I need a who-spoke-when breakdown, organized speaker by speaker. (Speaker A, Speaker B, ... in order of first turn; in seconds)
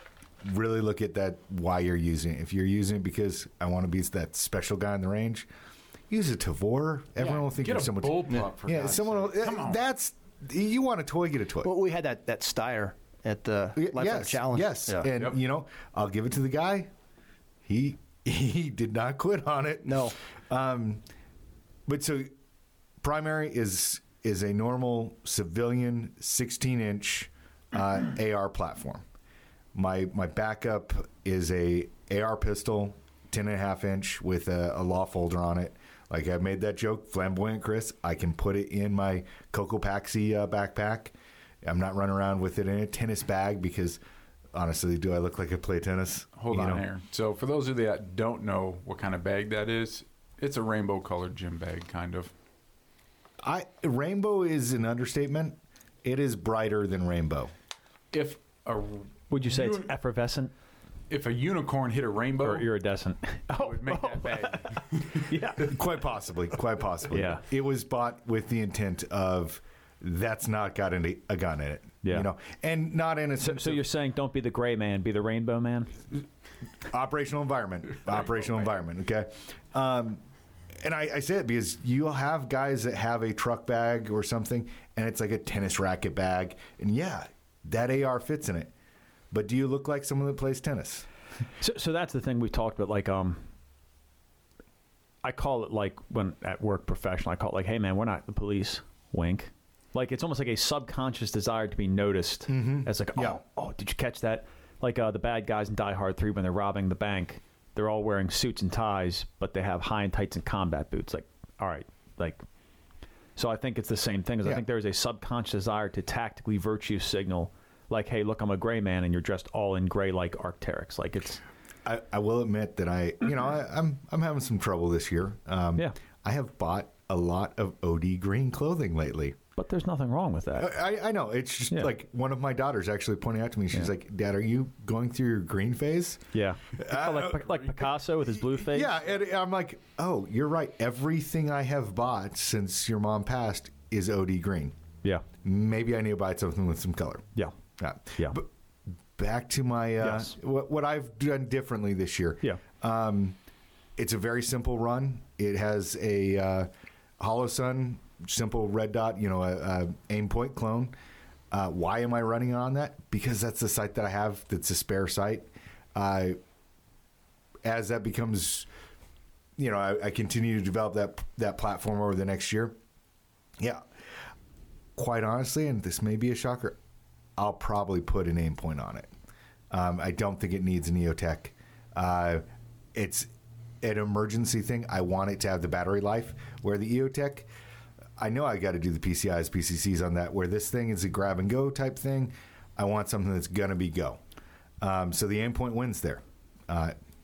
Speaker A: 0.4-5.5, 6.1-11.7, 13.8-16.9, 17.6-21.0, 21.9-22.3, 23.0-29.0, 29.7-44.0, 44.5-46.8, 53.4-57.5, 65.6-73.8, 76.9-80.2, 80.8-88.7, 89.3-91.1, 102.5-103.4, 121.8-129.4, 130.6-137.5, 138.5-144.8, 145.4-148.5, 149.2-153.4, 154.0-160.9, 161.5-166.4, 167.6-168.7, 169.6-172.8, 173.6-173.8, 175.0-176.8, 177.4-179.1, 179.7-183.3, 183.8-187.5, 188.2-194.2, 194.8-197.0
Speaker B: 7.2-9.8, 46.4-52.3, 58.1-59.9, 61.1-62.7, 63.5-65.3
Speaker C: 11.6-15.1, 19.9-20.2
Speaker D: 59.3-60.5, 62.4-65.8, 67.1-67.4, 73.4-76.0, 91.6-93.5, 95.2-112.4, 113.4-121.4, 129.6-130.7, 136.3-139.0, 150.0-150.3